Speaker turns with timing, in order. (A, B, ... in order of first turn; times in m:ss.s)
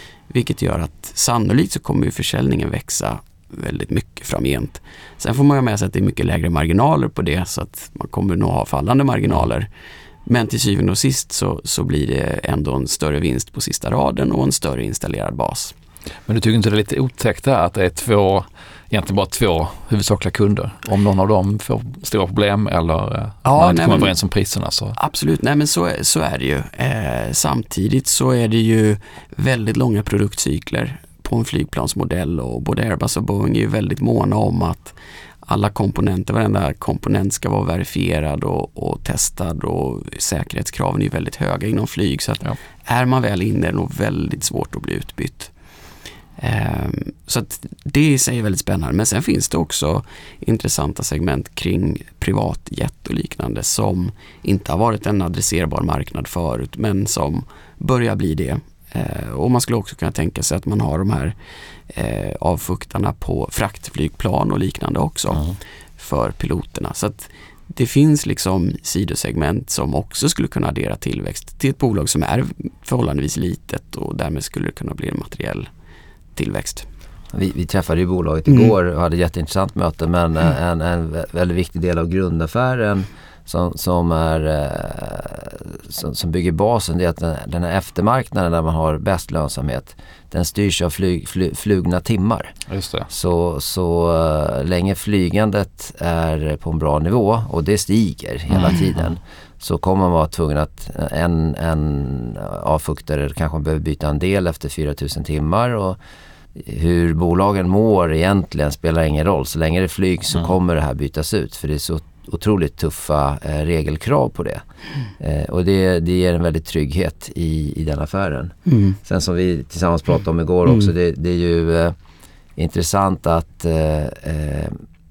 0:00.3-0:09.7 A
0:10.3-0:15.7 A
0:16.3-0:25.0 B
0:23.4-0:24.2 A
0:25.0-0:45.5 A
0:46.4-1:01.4 A
1:01.9-1:15.7 A
1:16.4-1:16.9 A
1:17.3-1:32.5 C
1:32.7-1:33.1 B
1:33.1-1:46.0 C
1:46.6-1:54.6 C
1:55.2-2:02.0 C
1:58.7-1:59.0 A
2:02.6-2:04.7 C